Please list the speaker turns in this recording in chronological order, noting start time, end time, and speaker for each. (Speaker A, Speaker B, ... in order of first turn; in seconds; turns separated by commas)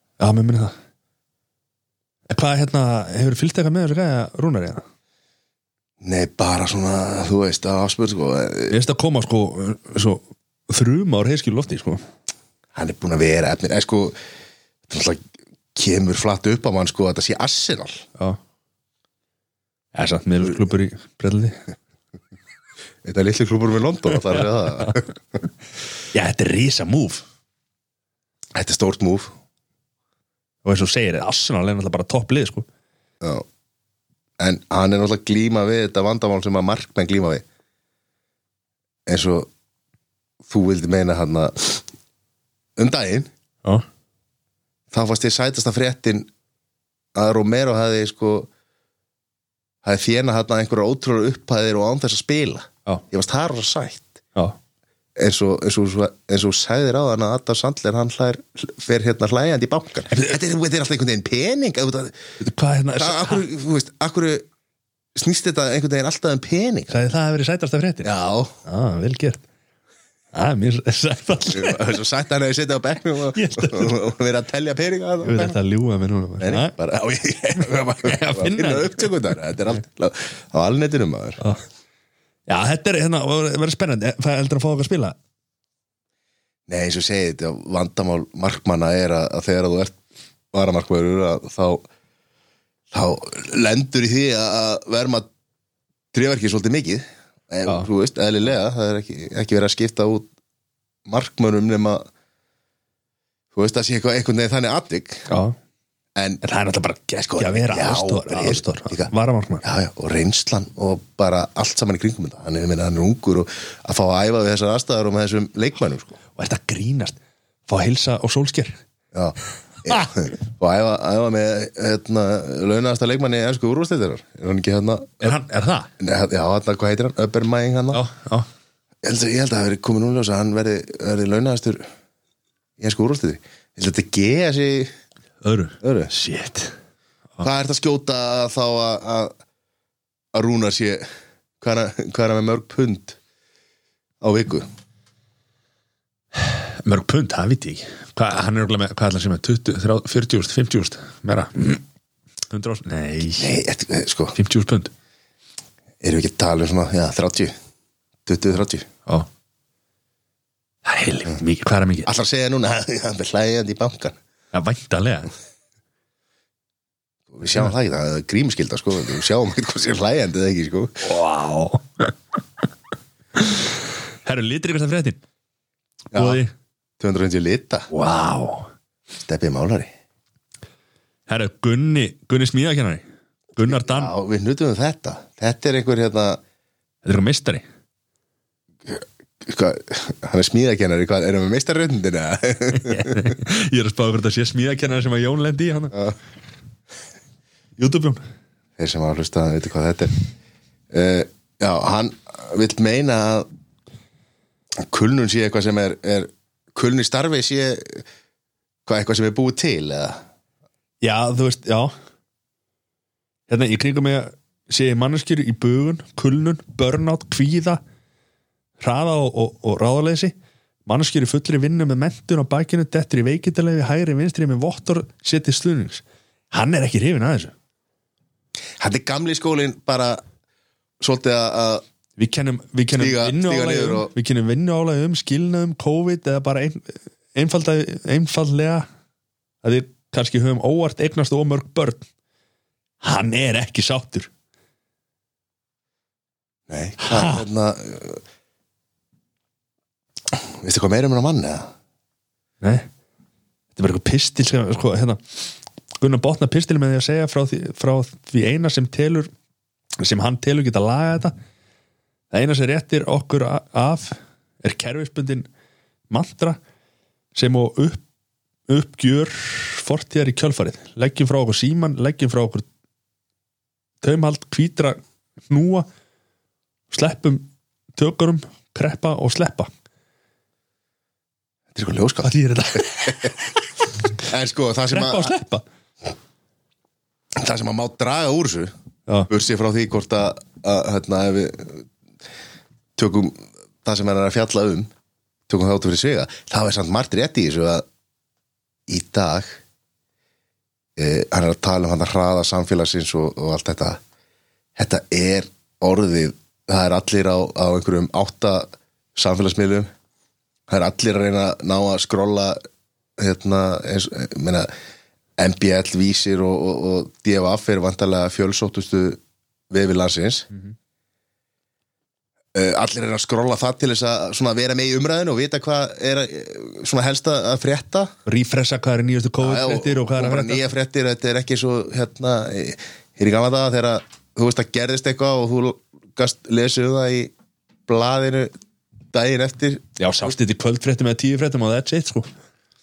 Speaker A: 0.2-0.7, Speaker A: 2.3-4.8, Speaker B: 6.0-8.8, Speaker A: 8.7-12.0, Speaker B: 12.7-14.2, Speaker B: 14.9-18.1, Speaker A: 19.9-21.6, Speaker B: 23.0-25.1, Speaker A: 24.3-24.9, Speaker A: 26.1-27.2, Speaker B: 28.5-29.3, Speaker A: 30.6-32.6, Speaker B: 34.4-37.4, Speaker B: 39.0-39.5, Speaker B: 40.4-41.8, Speaker B: 42.8-43.3, Speaker B: 44.9-46.3, Speaker B: 47.1-48.5, Speaker B: 49.8-54.2, Speaker B: 55.2-62.2, Speaker A: 62.4-63.5, Speaker B: 62.9-64.5, Speaker B: 65.1-66.9, Speaker A: 66.9-68.1, Speaker B: 68.0-68.5, Speaker A: 68.6-69.4, Speaker A: 70.3-71.8, Speaker B: 71.5-75.6, Speaker A: 73.3-74.0, Speaker A: 75.2-76.7, Speaker B: 76.4-81.4, Speaker A: 78.0-79.1, Speaker A: 82.5-85.2, Speaker B: 86.7-90.0, Speaker B: 90.5-91.8, Speaker B: 92.9-95.3, Speaker B: 96.1-100.3, Speaker B: 101.1-102.0, Speaker B: 103.5-105.3, Speaker A: 105.3-105.5, Speaker B: 106.2-106.4, Speaker A: 106.4-109.6, Speaker B: 107.2-109.1, Speaker B: 109.6-116.2, Speaker A: 116.3-118.8, Speaker B: 119.1-125.3, Speaker A: 125.2-125.9, Speaker B: 126.0-128.0, Speaker A: 127.9-128.5, Speaker B: 129.0-131.9, Speaker B: 132.8-134.9, Speaker A: 135.4-136.7, Speaker B: 135.8-136.1, Speaker B: 137.4-139.3, Speaker B: 140.3-141.0, Speaker B: 141.6-143.2, Speaker B: 144.2-144.7, Speaker A: 146.3-151.8, Speaker A: 152.5-153.5, Speaker B: 153.4-154.3, Speaker A: 154.3-154.9, Speaker B: 156.0-157.5, Speaker B: 158.2-158.9, Speaker A: 160.8-162.1, Speaker B: 162.1-164.2, Speaker A: 164.5-165.3, Speaker B: 167.3-171.0, Speaker A: 171.0-172.1, Speaker A: 173.4-173.7, Speaker A: 174.2-175.2, Speaker B: 176.1-176.4, Speaker A: 176.1-176.5, Speaker B: 177.0-177.9, Speaker A: 177.9-178.7, Speaker B: 179.2-179.9, Speaker A: 181.3-183.0, Speaker A: 183.5-184.1, Speaker B: 183.7-186.4, Speaker A: 187.0-187.6, Speaker B: 188.8-193.3, Speaker A: 192.7-196.0, Speaker A: 197.8-198.2, Speaker B: 198.8-200.1, Speaker B: 200.9-203.5, Speaker B: 204.8-208.0, Speaker B: 208.8-210.2, Speaker A: 211.0-211.9, Speaker A: 213.5-217.8, Speaker A: 218.8-220.3, Speaker A: 220.9-227.5, Speaker B: 228.8-230.2, Speaker B: 231.0-231.8, Speaker A: 232.2-238.9, Speaker B: 232.9-234.1, Speaker A: 239.6-242.1, Speaker A: 243.0-244.3, Speaker B: 246.7-248.2, Speaker A: 247.0-247.4, Speaker B: 250.3-251.7, Speaker A: 252.6-252.9, Speaker A: 253.7-255.4, Speaker A: 256.0-259.3, Speaker A: 260.0-261.3, Speaker A: 262.3-265.5, Speaker A: 266.1-266.6, Speaker A: 267.3-268.0, Speaker A: 268.7-272.6, Speaker A: 274.0-275.0, Speaker A: 275.5-275.9, Speaker A: 276.9-279.7, Speaker B: 281.7-283.3, Speaker A: 282.2-283.4, Speaker B: 284.2-285.3, Speaker A: 284.9-285.6, Speaker B: 287.4-288.7, Speaker B: 289.3-291.9, Speaker B: 293.0-294.9, Speaker B: 295.5-297.9, Speaker B: 298.9-299.6, Speaker B: 300.9-304.0, Speaker B: 304.8-309.9, Speaker B: 310.7-312.6, Speaker B: 313.2-314.7, Speaker B: 315.4-320.5, Speaker B: 322.5-328.1, Speaker A: 328.2-330.6, Speaker B: 329.4-337.3, Speaker B: 337.9-338.5, Speaker B: 339.1-339.9, Speaker A: 340.0-342.3